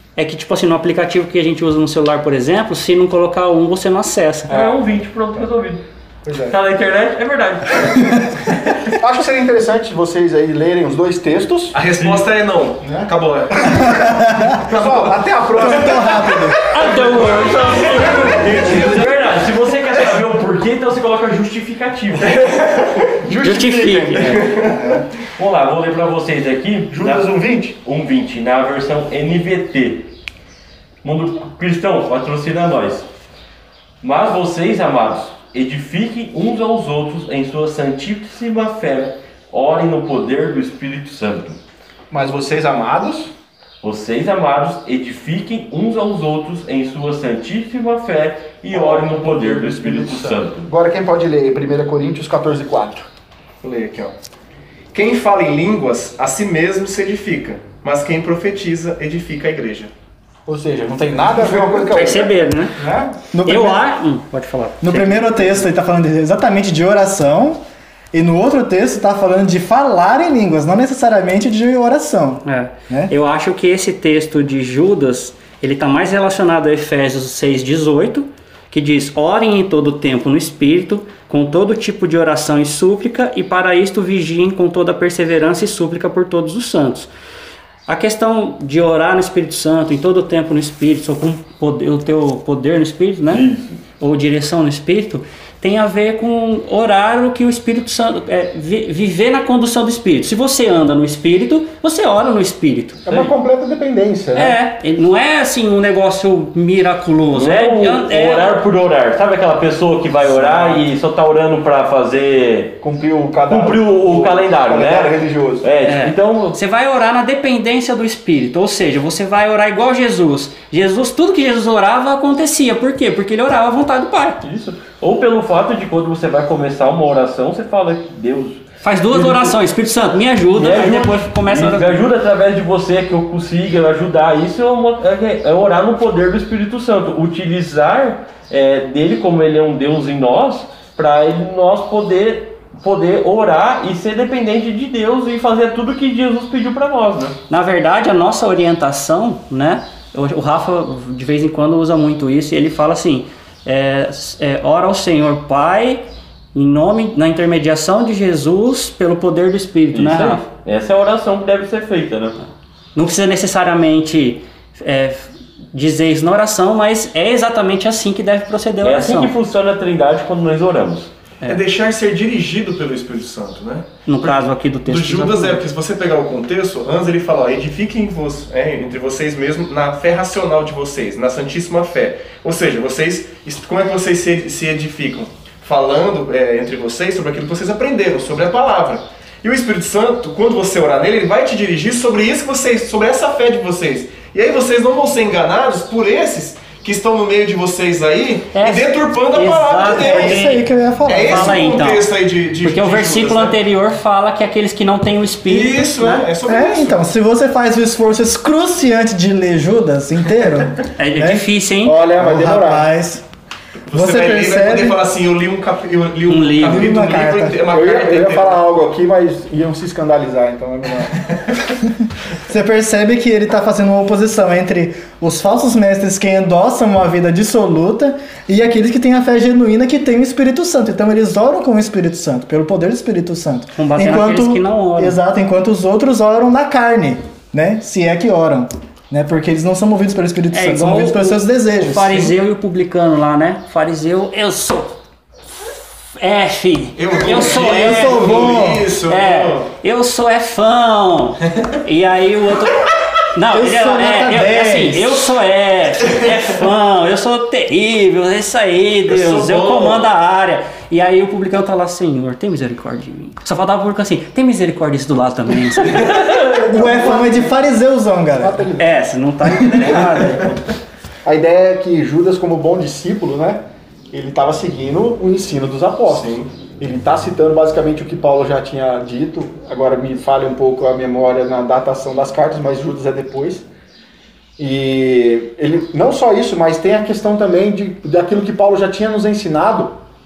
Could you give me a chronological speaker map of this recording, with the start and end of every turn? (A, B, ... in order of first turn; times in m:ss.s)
0:00.2-0:04.5 A
0:04.5-0:05.8 B
0:04.5-0:04.8 C
0:06.2-0:06.6 C
0:06.4-0:08.8 B
0:08.9-0:11.8 C
0:11.7-0:18.1 D
0:12.0-0:12.3 B
0:12.8-0:17.0 C
0:13.9-0:14.6 E
0:15.6-0:16.6 E
0:16.7-0:19.0 A
0:16.9-0:22.4 B
0:18.2-0:18.8 C
0:18.7-0:19.0 D
0:22.4-0:22.9 D
0:23.2-0:24.8 C
0:23.4-0:24.5 A
0:24.2-0:25.0 D
0:25.4-0:30.1 B
0:26.9-0:27.8 C
0:31.0-0:33.1 B
0:34.0-0:41.6 B
0:42.1-0:43.3 C
0:43.8-0:50.7 B
0:48.7-0:53.1 C
0:53.6-0:54.1 D
0:54.9-0:59.9 D
1:00.5-1:03.2 C
1:01.9-1:02.8 A
1:03.3-1:03.8 E
1:03.4-1:05.6 A
1:04.8-1:07.6 E
1:08.1-1:13.1 E
1:12.4-1:27.1 A
1:27.9-1:33.5 A
1:33.3-1:33.8 B
1:34.0-1:43.0 A
1:43.1-1:44.6 C
1:44.3-1:48.6 A
1:47.3-1:52.8 B
1:50.3-1:50.8 C
1:52.8-1:55.7 C
1:53.5-1:56.6 B
1:55.8-2:04.4 A
2:04.4-2:09.6 B
2:08.8-2:12.0 A
2:10.5-2:27.4 B
2:27.5-2:36.0 A
2:36.5-2:40.4 A
2:39.9-2:42.4 B
2:43.0-2:49.3 A
2:48.8-2:51.1 B
2:51.4-3:23.6 D
2:54.1-2:55.6 A
3:18.5-3:22.1 A
3:20.0-3:21.6 E
3:22.6-3:26.3 A
3:25.5-3:27.0 D
3:26.4-3:31.4 E
3:31.0-3:32.0 A
3:31.8-3:32.9 C
3:32.2-3:33.2 E
3:33.9-3:38.6 D
3:33.9-3:35.0 E
3:36.3-3:37.0 A
3:36.6-3:37.6 E
3:37.7-3:41.2 C
3:42.5-4:02.3 E
3:53.7-3:55.2 A
4:00.5-4:04.9 A
4:06.2-4:08.3 A
4:07.0-4:09.7 D
4:07.4-4:08.9 E
4:09.1-4:26.2 A
4:13.5-4:15.3 E
4:19.1-4:20.0 D
4:26.1-4:26.5 B
4:26.5-4:28.6 E
4:26.7-4:27.6 C
4:28.4-4:28.9 C
4:28.8-4:30.6 A
4:31.2-4:43.7 C
4:36.0-4:36.5 D
4:44.6-4:50.0 C